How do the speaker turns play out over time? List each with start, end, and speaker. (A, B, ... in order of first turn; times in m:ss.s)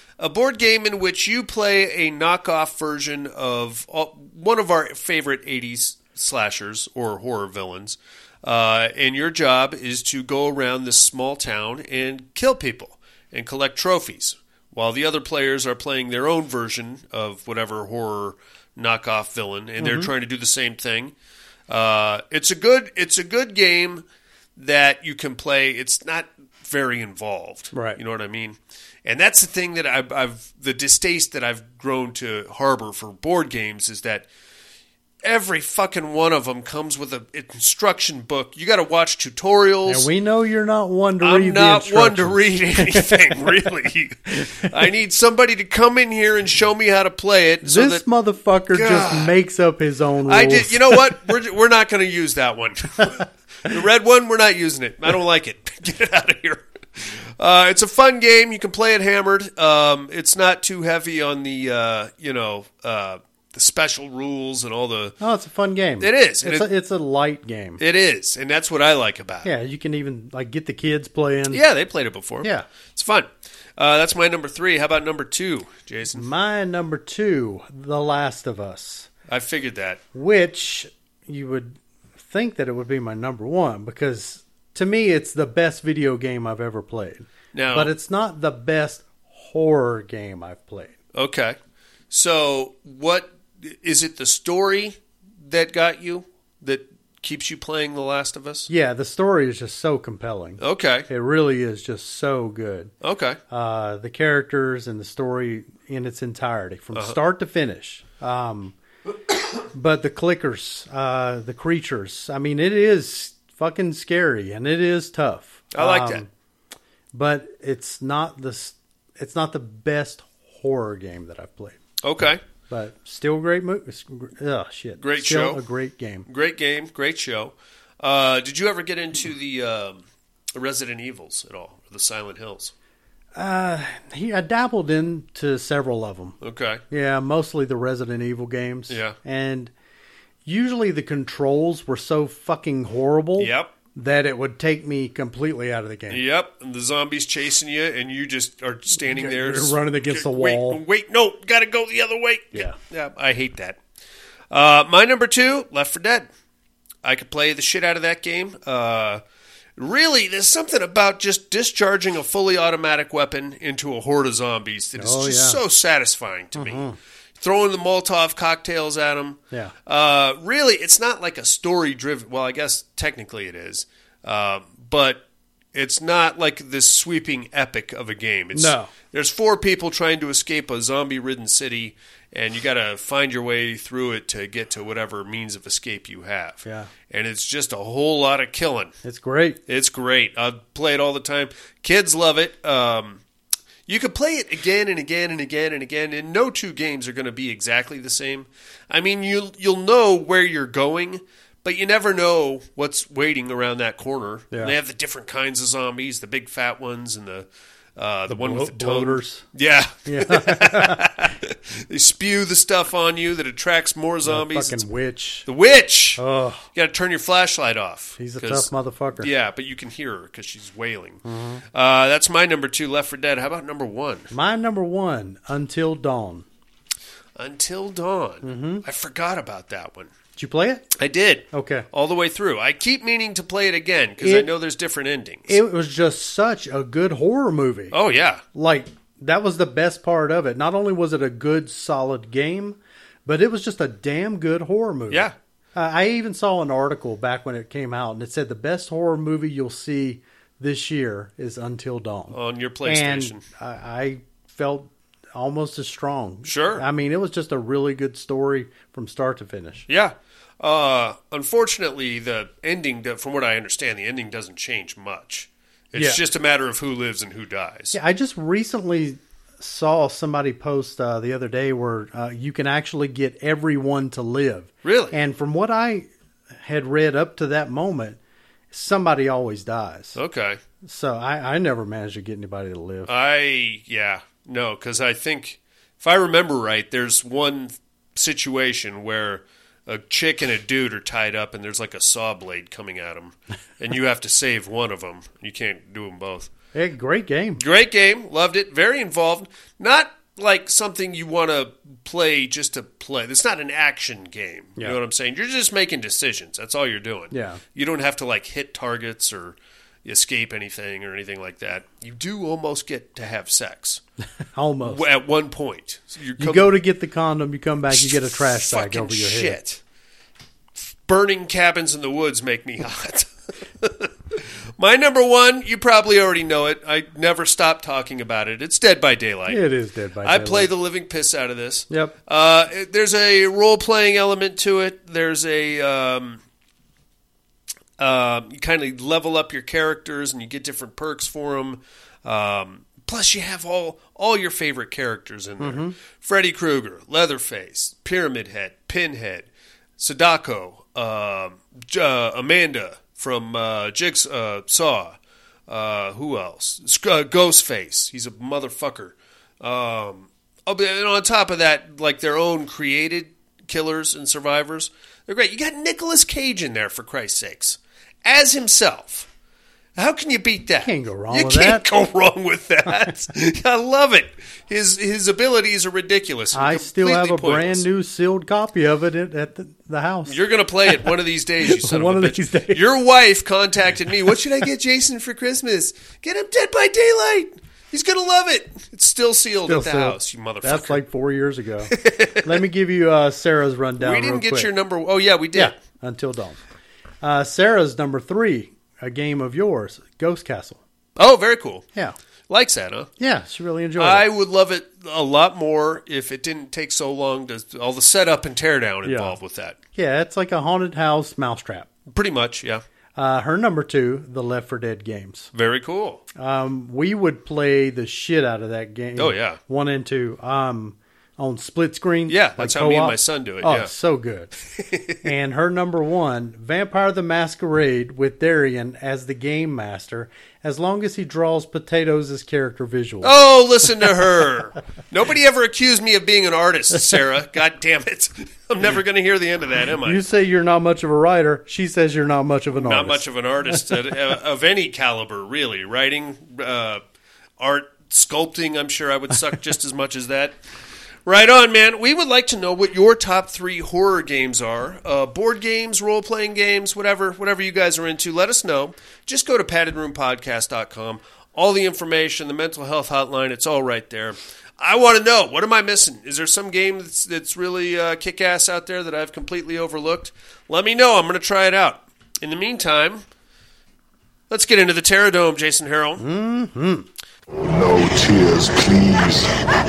0:00.2-0:21.1 A
0:19.8-0:20.1 B
0:21.7-0:24.0 A
0:24.6-0:34.3 A
0:27.7-0:28.0 B
0:35.2-0:40.1 A
0:39.9-0:43.6 B
0:41.2-0:48.0 A
0:47.6-0:51.1 B
0:48.7-0:49.3 A
0:50.3-1:05.2 A
1:05.2-1:07.8 B
1:06.0-1:06.7 A
1:07.8-1:09.5 A
1:09.4-1:11.6 B
1:11.5-1:16.3 A
1:16.1-1:19.1 B
1:19.3-1:20.0 A
1:20.1-1:31.0 B
1:27.5-1:27.9 A
1:31.1-1:31.6 A
1:32.1-1:38.7 A
1:38.7-1:42.9 B
1:40.6-1:41.1 A
1:43.0-1:43.4 A
1:43.5-1:48.8 B
1:49.7-1:56.3 B
1:55.7-1:56.2 A
1:57.1-2:01.8 B
2:02.0-2:02.4 A
2:02.7-2:06.3 B
2:05.0-2:05.6 A
2:06.3-2:12.7 A
2:13.4-2:16.4 B
2:16.4-2:16.8 A
2:16.9-2:19.7 B
2:18.9-2:19.2 A
2:20.4-2:26.2 B
2:23.4-2:23.7 A
2:26.1-2:33.8 A
2:28.9-2:30.8 B
2:34.5-2:36.3 A
2:37.0-2:39.2 A
2:39.8-2:46.8 A
2:45.0-2:45.6 B
2:46.6-2:47.0 B
2:47.4-2:55.2 A
2:55.7-3:09.0 A
2:58.5-2:58.9 B
3:06.6-3:06.9 B
3:09.0-3:09.6 B
3:09.7-3:13.2 A
3:13.9-3:34.8 A
3:28.3-3:29.4 B
3:30.1-3:31.0 B
3:34.3-3:35.4 B
3:35.4-3:36.2 A
3:36.2-3:36.7 B
3:36.8-3:41.2 A
3:38.2-3:39.3 B
3:41.2-3:41.6 B
3:41.7-3:44.3 A
3:44.3-3:46.4 B
3:47.4-3:50.1 A
3:48.4-3:48.8 B
3:50.4-3:50.9 B
3:51.0-3:55.6 A
3:51.5-3:51.9 B
3:54.2-3:54.5 B
3:55.5-3:58.0 B
3:57.9-3:58.4 A
3:58.6-4:19.8 B
4:12.3-4:13.4 A
4:16.4-4:16.8 A
4:19.9-4:28.0 A
4:26.0-4:26.2 B
4:27.9-4:36.1 B
4:34.8-4:35.2 A
4:36.6-4:38.2 B
4:38.7-4:40.2 B
4:40.1-4:40.6 A
4:40.8-4:43.1 B
4:43.1-4:56.5 A
4:56.7-4:57.6 B
4:57.6-5:14.0 A
5:07.3-5:07.6 B
5:14.6-5:15.0 B
5:14.8-5:16.8 A
5:16.4-5:19.6 B
5:17.9-5:19.8 A
5:21.0-5:23.3 A
5:23.8-5:29.6 A
5:29.5-5:30.7 B
5:30.2-5:36.4 A
5:38.0-5:55.2 A
5:45.6-5:46.0 B
5:55.7-6:09.3 A
6:10.0-6:17.8 A
6:10.8-6:11.8 B
6:16.5-6:21.1 B
6:20.3-6:31.0 A
6:21.7-6:22.8 B
6:29.7-6:34.7 B
6:31.9-6:32.6 A
6:34.0-6:35.8 A
6:35.6-6:36.6 B
6:37.2-6:40.8 B
6:41.2-6:41.9 A
6:42.5-6:43.1 A
6:43.2-6:44.2 B
6:44.0-6:49.8 A
6:49.0-6:49.4 B
6:50.0-6:51.9 B
6:52.1-6:52.8 A
6:53.2-6:55.5 B
6:55.5-6:56.2 A
6:56.4-7:04.5 B
6:59.2-6:59.6 A
7:02.3-7:03.9 A
7:04.8-7:05.2 A
7:05.2-7:13.3 B
7:13.2-7:20.2 A
7:20.0-7:23.8 B
7:22.7-7:27.0 A
7:27.6-7:30.6 A
7:31.3-7:53.2 A
7:54.5-7:56.2 A
7:56.2-7:57.1 B
7:57.6-7:59.5 C